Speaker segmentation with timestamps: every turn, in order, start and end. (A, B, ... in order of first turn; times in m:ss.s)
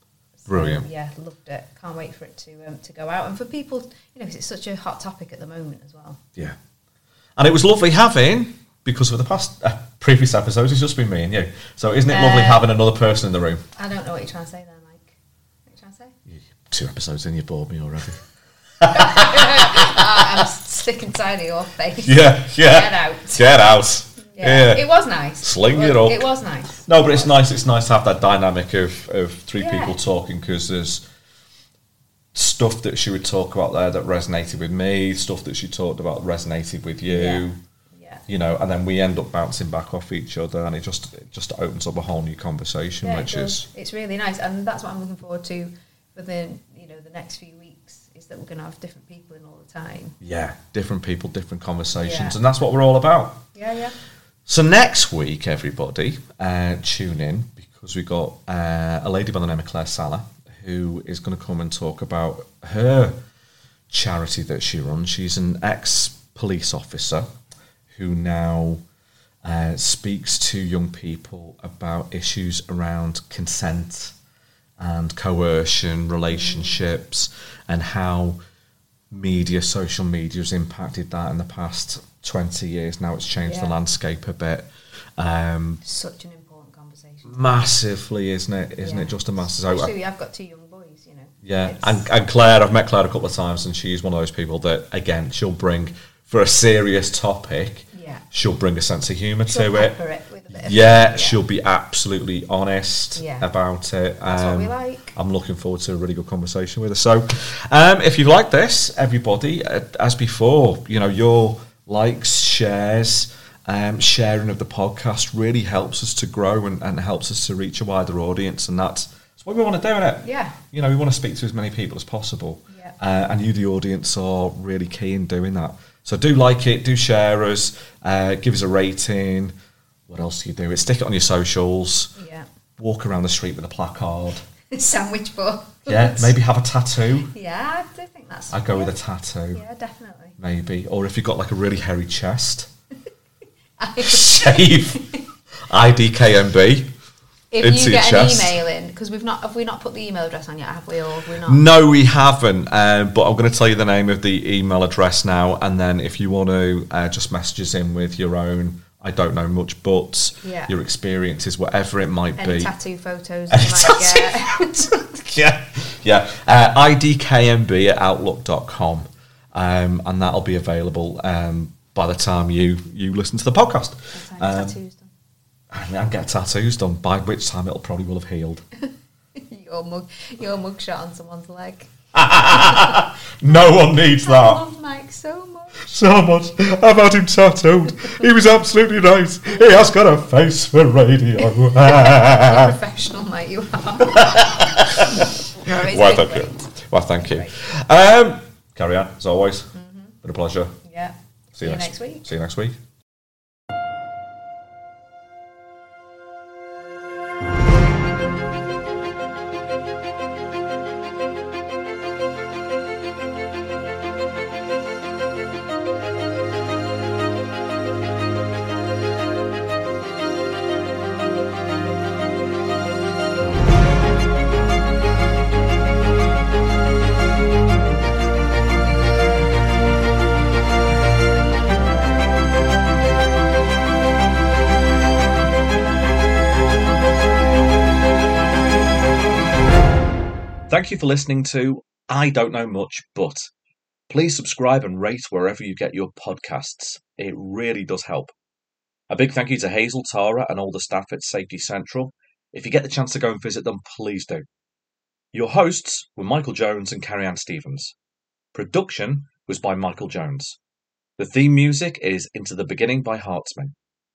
0:00.4-0:06.2 A
0:00.5-0:00.9 B
0:07.4-0:13.6 B
0:12.1-0:12.7 A
0:13.8-0:15.1 A
0:15.6-0:16.1 A
0:16.3-0:18.2 B
0:18.8-0:20.4 B
0:18.9-0:23.4 A
0:22.0-0:24.8 B
0:24.3-0:27.3 A
0:25.4-0:26.2 B
0:26.8-0:31.0 B
0:29.6-0:30.0 A
0:32.3-0:37.6 B
0:37.1-0:38.2 A
0:38.3-0:43.7 B
0:43.0-0:50.2 A
0:50.2-0:53.4 B
0:52.0-0:52.4 A
0:53.5-0:53.9 A
0:54.5-1:03.2 B
1:03.9-1:07.3 B
1:07.9-1:08.8 B
1:09.4-1:14.1 B
1:14.8-1:18.4 B
1:16.3-1:16.8 A
1:19.1-1:25.8 B
1:23.4-1:23.7 A
1:25.8-1:27.5 A
1:27.2-1:29.9 B
1:28.8-1:32.0 A
1:31.4-1:39.9 B
1:37.9-1:38.2 A
1:39.5-1:41.4 A
1:40.5-2:09.5 B
1:43.2-1:43.5 A
1:44.3-1:45.1 A
2:00.2-2:00.6 A
2:10.1-2:12.1 B
2:12.2-2:12.5 A
2:12.8-2:14.4 B
2:14.7-2:16.3 A
2:15.9-2:17.3 B
2:17.3-2:18.9 A
2:18.5-2:19.6 B
2:19.5-2:20.4 A
2:20.4-2:22.7 B
2:23.8-2:25.2 A
2:24.0-2:25.0 B
2:25.7-2:26.9 B
2:27.5-2:31.6 A
2:27.6-2:28.5 B
2:31.4-2:42.7 B
2:40.4-2:40.7 A
2:42.4-2:45.0 A
2:43.5-2:54.8 B
2:54.1-2:55.1 A
2:55.7-2:58.6 B
2:59.4-3:01.9 A
3:02.1-3:04.6 B
3:02.4-3:03.0 A
3:03.9-3:05.9 A
3:05.8-3:12.8 B
3:11.8-3:14.4 A
3:14.0-3:19.7 B
3:15.6-3:17.5 A
3:19.7-3:20.1 A
3:20.2-3:20.8 B
3:20.8-3:22.3 A
3:21.6-3:22.8 B
4:00.7-4:03.5 B
4:04.1-4:08.3 B
4:09.1-4:14.4 B
4:15.3-4:17.9 B
4:18.5-4:20.6 B
4:21.2-4:23.7 B